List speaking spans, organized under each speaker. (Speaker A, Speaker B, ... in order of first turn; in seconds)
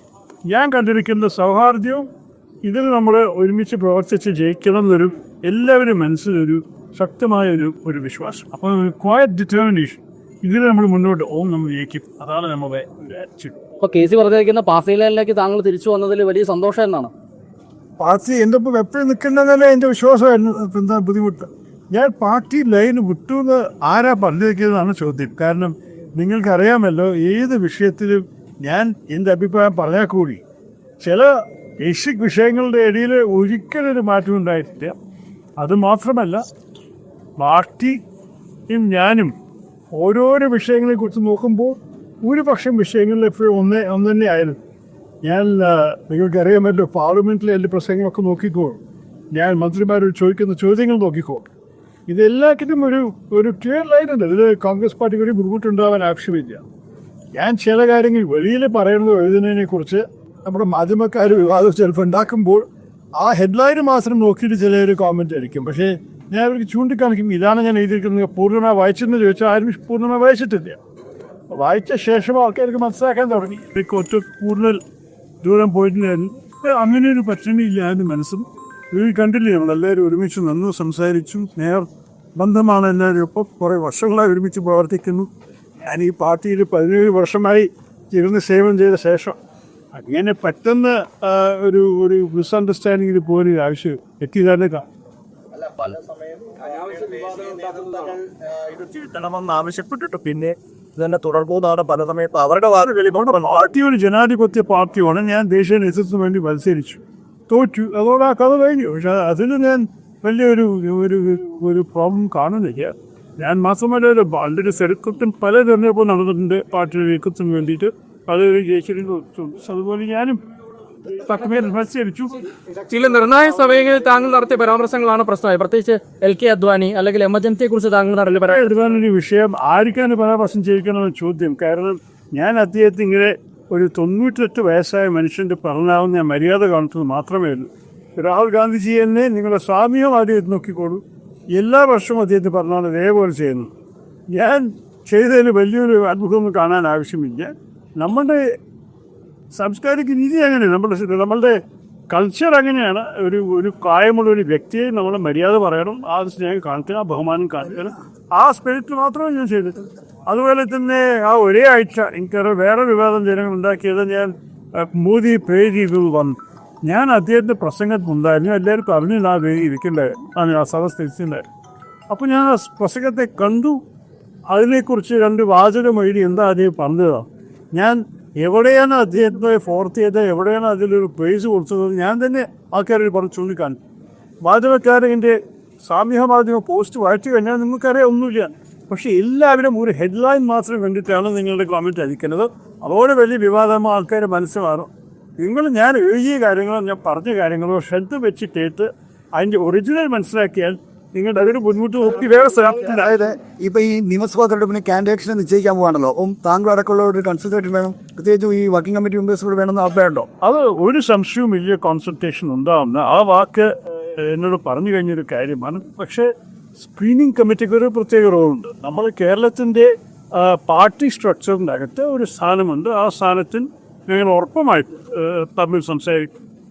Speaker A: 0.5-2.1, 2.6-13.6, 18.0-30.4, 31.0-34.9, 35.6-36.4, 37.4-38.0, 38.7-39.3, 39.9-44.6, 45.2-51.5, 52.1-56.6, 57.3-70.8, 71.5-74.8, 75.4-85.3, 85.8-89.4, 89.9-94.8, 102.8-120.4, 121.1-122.4, 128.4-141.0, 141.5-143.7, 144.3-148.4, 149.5-151.6, 152.1-171.4, 172.1-173.8, 174.5-183.8, 184.4-203.2, 210.4-226.3
Speaker B: 13.8-17.1, 122.9-128.6
Speaker C: 95.8-102.8
Speaker D: 202.8-210.3